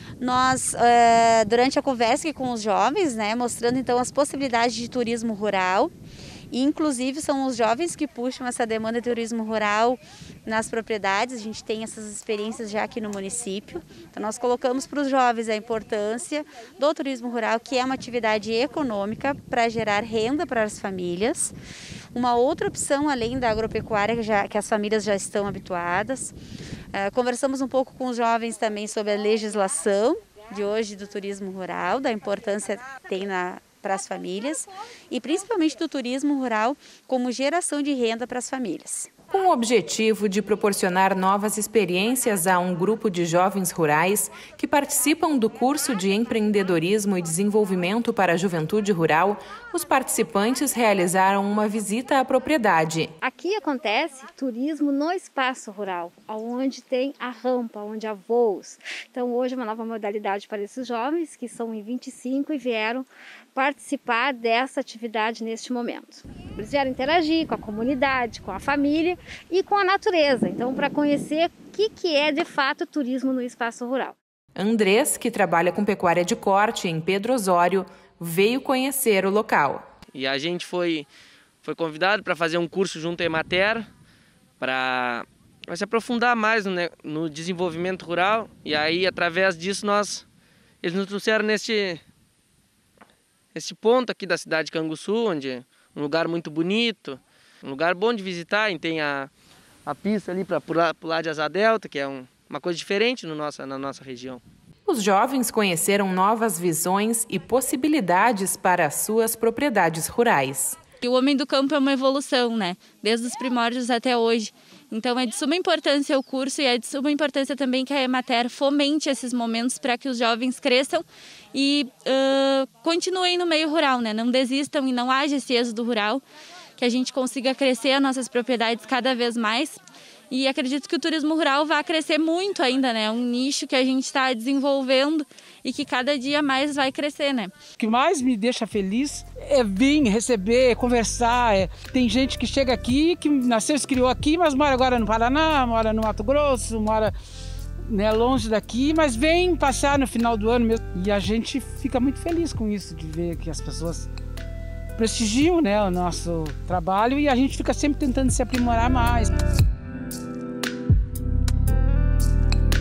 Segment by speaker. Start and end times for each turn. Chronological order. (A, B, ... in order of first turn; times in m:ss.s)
0:00.2-0:05.9 A
0:06.5-0:21.6 A
0:22.1-0:26.4 A
0:26.9-0:39.1 A
0:39.3-0:53.1 B
0:53.2-1:14.2 C
1:14.6-1:19.8 B
1:20.1-1:21.1 D
1:21.6-1:23.9 D
1:24.6-1:30.3 D
1:30.8-1:32.0 D
1:33.6-1:39.3 D
1:39.9-1:44.4 D
1:44.9-1:50.8 B
1:51.0-2:06.2 E
2:06.8-2:09.8 E
2:10.3-2:17.5 E
2:17.8-2:27.2 F
2:27.8-2:34.1 F
2:35.0-2:39.4 F